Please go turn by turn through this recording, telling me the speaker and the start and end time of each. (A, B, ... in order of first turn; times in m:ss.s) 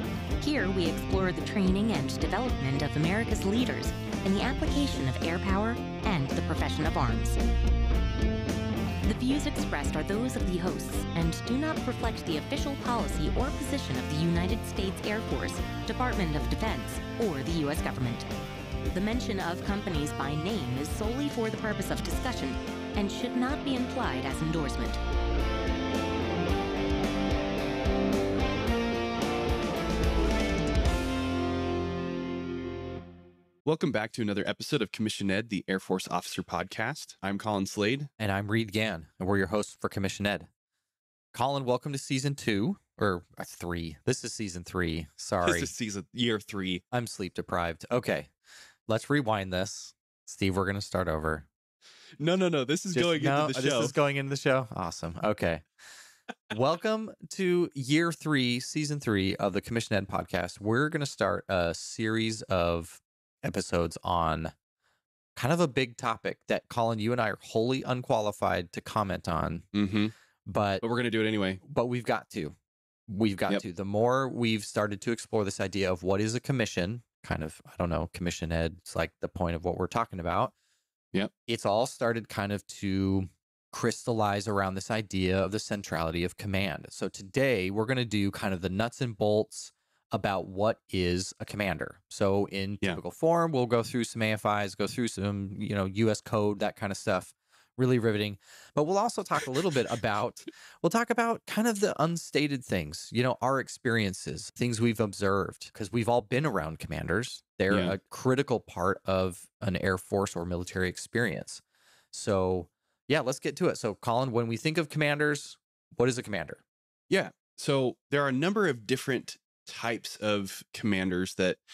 0:00.4-0:07.4 A
0:09.0-0:18.2 A
0:18.9-0:25.0 A
0:33.6-0:38.1 B
0:38.2-0:40.5 C
0:41.3-0:45.7 C
0:45.4-0:46.8 B
0:46.9-0:48.3 C
0:48.9-0:51.5 C
0:52.2-0:53.9 B
0:52.9-0:55.6 C
0:56.5-1:04.5 C
1:05.4-1:09.6 C
1:09.7-1:10.1 B
1:10.4-1:10.8 C
1:10.8-1:11.6 B
1:11.6-1:12.5 C
1:13.1-1:20.5 C
1:21.4-1:56.6 C
1:57.1-2:01.6 B